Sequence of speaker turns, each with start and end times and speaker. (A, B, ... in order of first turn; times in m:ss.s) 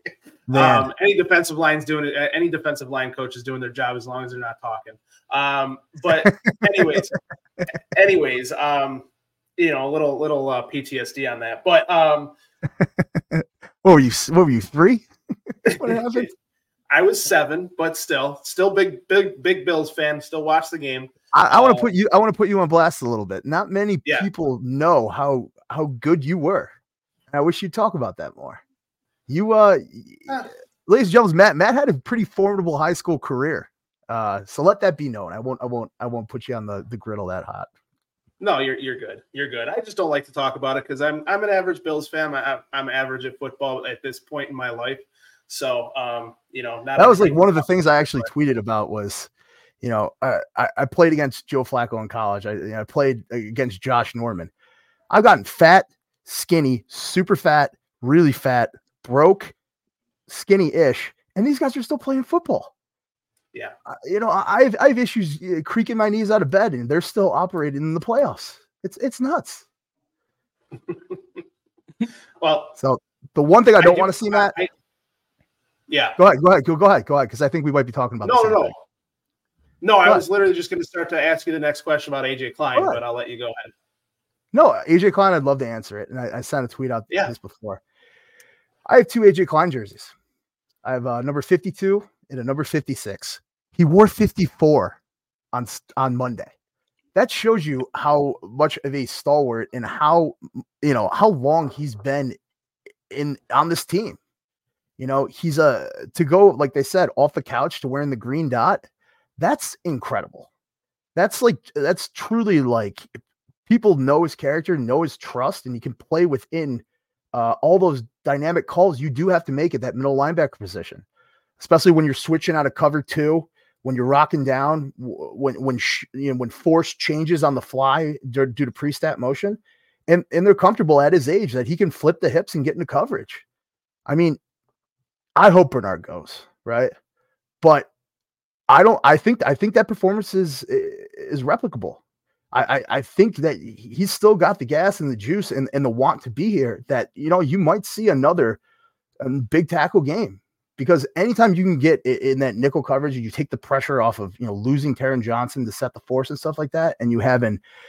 0:00.5-0:00.9 A
0:00.5-0:07.1 B
0:06.2-0:07.0 A
0:07.9-0:09.0 B
0:09.6-0:12.3 B
0:13.3-0:15.1 A
0:15.6-0:16.3 A
0:15.7-0:16.0 B
0:16.9-0:21.9 B
0:21.3-0:26.7 A
0:27.3-0:28.6 A
0:29.3-0:30.3 A
0:30.8-0:37.7 A
0:38.4-0:48.3 B
0:47.0-0:49.3 A
0:49.8-0:54.5 A
0:55.1-0:59.5 A
1:00.3-1:02.7 A
1:03.9-1:09.6 A
1:12.4-1:12.7 B
1:12.8-1:14.5 A
1:13.8-1:14.7 B
1:15.9-1:16.2 B
1:16.2-1:18.7 A
1:18.2-1:18.7 B
1:19.8-1:23.7 B
1:22.8-1:23.0 A
1:24.5-1:27.8 A
1:28.9-1:30.1 A
1:30.8-1:35.0 A
1:35.5-1:36.5 A
1:37.1-1:42.4 A
1:43.1-1:44.2 A
1:45.0-1:48.9 A
1:49.4-1:50.5 A
1:51.2-1:53.1 A
1:53.7-2:01.0 A
2:01.6-2:13.4 A
2:14.1-2:14.4 A
2:15.4-2:16.9 A
2:17.6-2:17.9 A
2:18.7-2:22.0 A
2:22.5-2:28.6 A
2:29.2-2:37.6 A